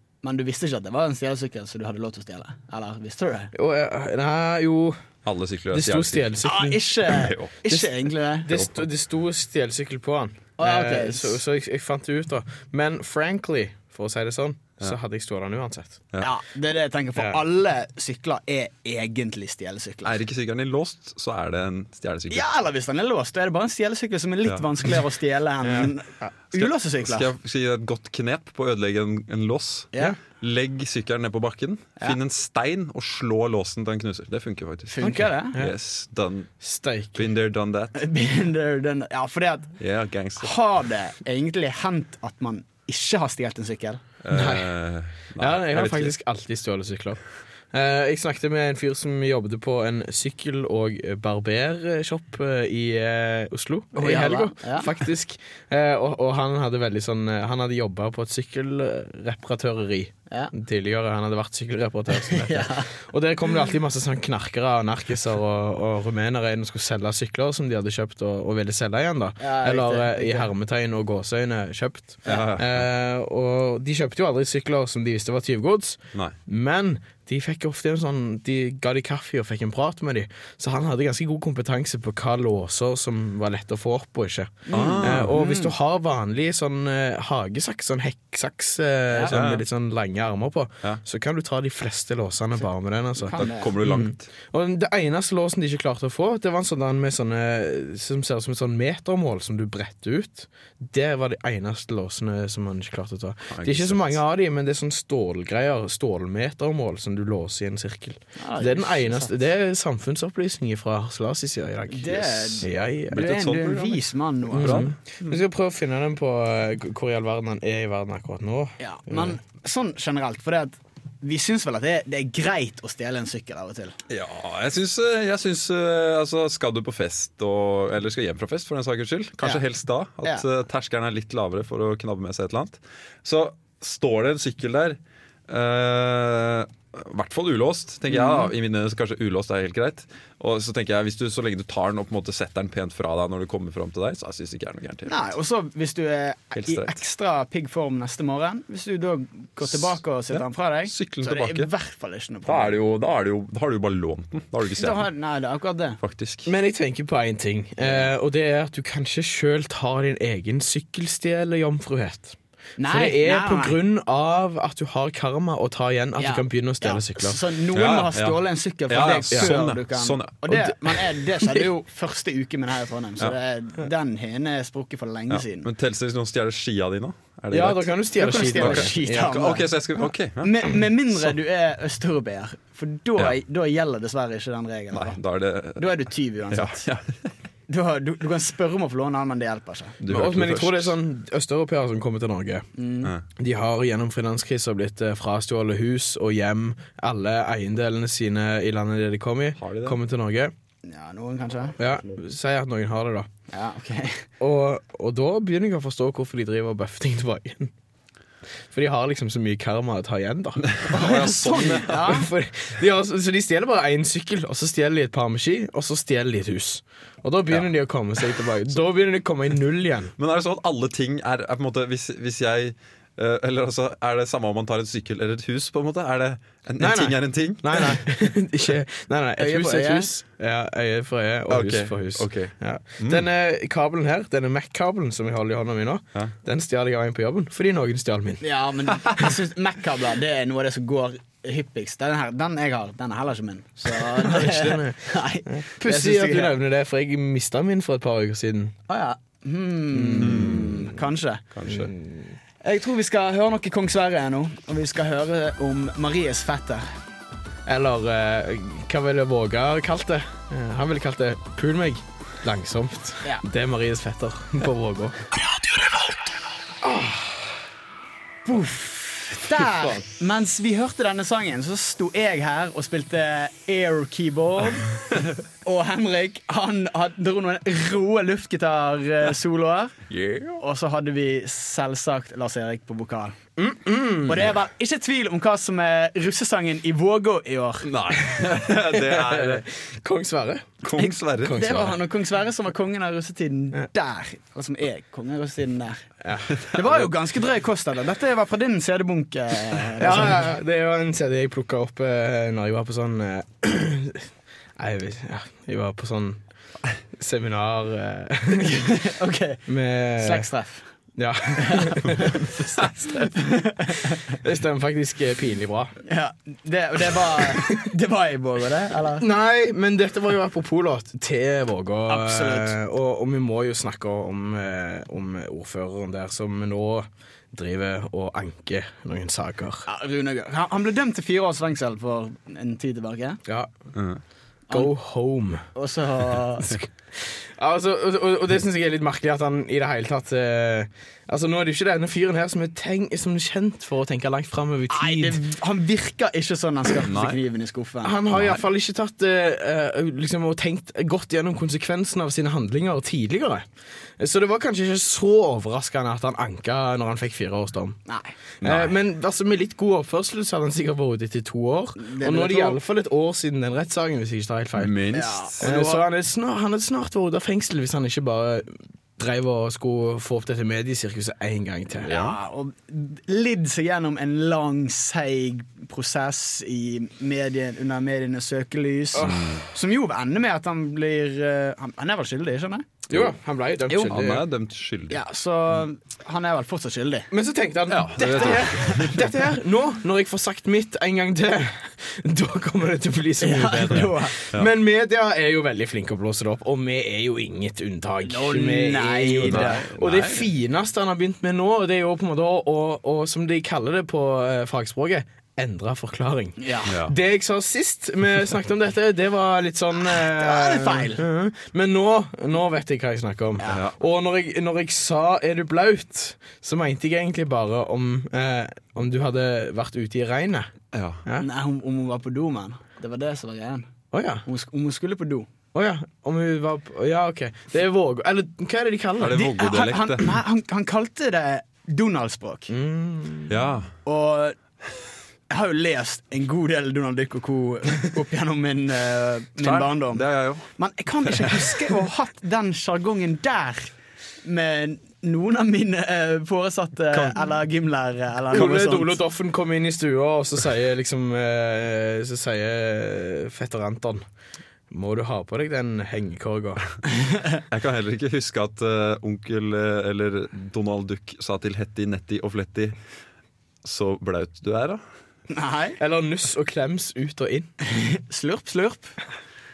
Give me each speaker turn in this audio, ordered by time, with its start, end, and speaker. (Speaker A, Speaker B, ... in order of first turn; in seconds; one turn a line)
Speaker A: 0.2-3.5
Speaker B: 3.5-5.0
Speaker C: 5.2-6.5
Speaker B: 5.7-6.9
Speaker A: 6.4-8.6
Speaker C: 7.0-7.6
Speaker B: 8.4-16.0
Speaker A: 10.6-11.4
Speaker A: 16.2-20.2
Speaker B: 17.2-17.4
Speaker C: 20.0-22.5
Speaker A: 22.3-27.3
Speaker C: 24.4-24.7
Speaker B: 25.6-25.9
Speaker C: 26.5-36.5
Speaker A: 35.0-35.6
Speaker B: 35.0-35.7
Speaker B: 36.6-37.3
Speaker C: 37.1-38.0
Speaker A: 38.0-39.8
Speaker C: 39.8-40.5
Speaker A: 40.4-44.0
Speaker C: 44.2-46.1
Speaker B: 44.3-44.7
Speaker B: 45.4-47.2
Speaker B: 47.7-113.3
Speaker A: 54.0-54.9
Speaker A: 62.1-62.9
Speaker A: 69.4-70.5
Speaker C: 72.2-72.9
Speaker A: 84.7-85.7
Speaker C: 84.7-85.4
Speaker A: 89.1-89.4
Speaker C: 89.3-89.7
Speaker A: 93.2-93.8
Speaker C: 93.3-94.3
Speaker C: 103.5-104.2
Speaker A: 108.4-109.3
Speaker A: 111.9-114.9
Speaker C: 113.1-115.4
Speaker B: 114.5-119.4
Speaker A: 118.8-124.0
Speaker C: 124.1-145.2
Speaker A: 138.1-138.5
Speaker A: 145.1-152.8
Speaker C: 146.6-147.0
Speaker C: 149.6-151.7
Speaker C: 152.5-155.1
Speaker A: 154.8-156.0
Speaker C: 156.0-156.5
Speaker B: 156.5-167.4
Speaker A: 157.8-158.1
Speaker A: 162.8-163.8
Speaker A: 166.2-175.7
Speaker C: 167.7-170.7
Speaker B: 169.0-169.6
Speaker C: 175.3-180.8
Speaker B: 177.5-179.4
Speaker A: 178.2-185.2
Speaker C: 184.9-187.3
Speaker A: 185.8-186.8
Speaker A: 187.7-190.0
Speaker C: 190.0-190.9
Speaker B: 190.1-192.7
Speaker A: 192.8-193.1
Speaker B: 193.4-200.5
Speaker C: 199.6-200.0
Speaker A: 200.8-201.8
Speaker B: 201.8-203.3
Speaker A: 203.5-204.2
Speaker B: 204.4-207.7
Speaker B: 208.7-210.8
Speaker C: 210.6-212.2
Speaker A: 210.9-212.3
Speaker B: 211.6-220.1
Speaker C: 220.2-228.0
Speaker B: 226.8-238.4
Speaker A: 229.4-230.1
Speaker C: 231.5-233.3
Speaker A: 238.4-246.6
Speaker B: 243.9-248.7
Speaker A: 248.9-251.5
Speaker B: 249.9-250.8
Speaker C: 250.2-250.9
Speaker C: 251.5-251.9
Speaker B: 251.7-252.4
Speaker A: 252.6-256.9
Speaker B: 257.7-265.2
Speaker B: 266.8-267.4
Speaker A: 268.4-275.0
Speaker B: 269.7-270.0
Speaker A: 275.6-280.0
Speaker C: 280.1-280.6
Speaker A: 280.6-283.4
Speaker B: 283.6-284.5
Speaker A: 284.3-287.9
Speaker C: 287.8-289.6
Speaker B: 288.6-290.9
Speaker C: 290.8-291.9
Speaker B: 291.4-292.0
Speaker A: 291.5-296.0
Speaker B: 296.2-296.7
Speaker A: 296.6-300.4
Speaker B: 300.0-306.4
Speaker B: 307.1-308.9
Speaker A: 308.6-309.6
Speaker B: 309.7-310.5
Speaker A: 310.2-310.9
Speaker B: 311.2-315.9
Speaker A: 311.6-312.5
Speaker A: 313.1-314.2
Speaker A: 316.1-319.2
Speaker B: 319.2-329.9
Speaker A: 322.1-322.7
Speaker A: 329.9-333.4
Speaker C: 333.9-334.2
Speaker B: 334.7-335.6
Speaker A: 335.8-336.8
Speaker B: 337.1-345.4
Speaker A: 344.9-348.2
Speaker C: 347.0-347.4
Speaker B: 348.0-353.6
Speaker C: 348.3-348.6
Speaker B: 354.2-358.0
Speaker A: 358.1-358.3
Speaker B: 358.6-365.0
Speaker C: 358.6-358.9
Speaker A: 362.0-362.8
Speaker C: 364.8-365.6
Speaker A: 365.1-366.1
Speaker B: 365.6-372.1
Speaker A: 372.1-383.0
Speaker C: 372.1-372.4
Speaker B: 379.1-379.5
Speaker C: 379.2-379.6
Speaker B: 383.1-384.4
Speaker C: 383.9-385.2
Speaker A: 385.1-387.3
Speaker B: 387.3-420.7
Speaker C: 387.9-389.3
Speaker A: 388.3-389.1
Speaker A: 393.4-394.4
Speaker C: 393.9-394.7
Speaker A: 398.2-399.9
Speaker C: 399.4-400.5
Speaker A: 406.6-406.9
Speaker C: 406.9-407.1
Speaker A: 410.0-411.2
Speaker C: 413.6-413.9
Speaker C: 420.9-421.2
Speaker A: 421.4-423.9
Speaker B: 424.1-424.4
Speaker A: 424.5-425.5
Speaker B: 425.7-429.5
Speaker C: 429.2-430.4
Speaker A: 429.3-432.7
Speaker B: 432.7-433.6
Speaker C: 433.5-433.9
Speaker A: 434.1-434.6
Speaker A: 435.5-449.2
Speaker C: 439.6-440.7
Speaker C: 441.2-441.9
Speaker C: 447.1-447.5
Speaker B: 448.5-454.2
Speaker B: 454.9-456.9
Speaker C: 457.7-463.0
Speaker C: 463.8-465.0
Speaker A: 465.5-466.0
Speaker B: 466.0-467.7
Speaker A: 467.9-469.1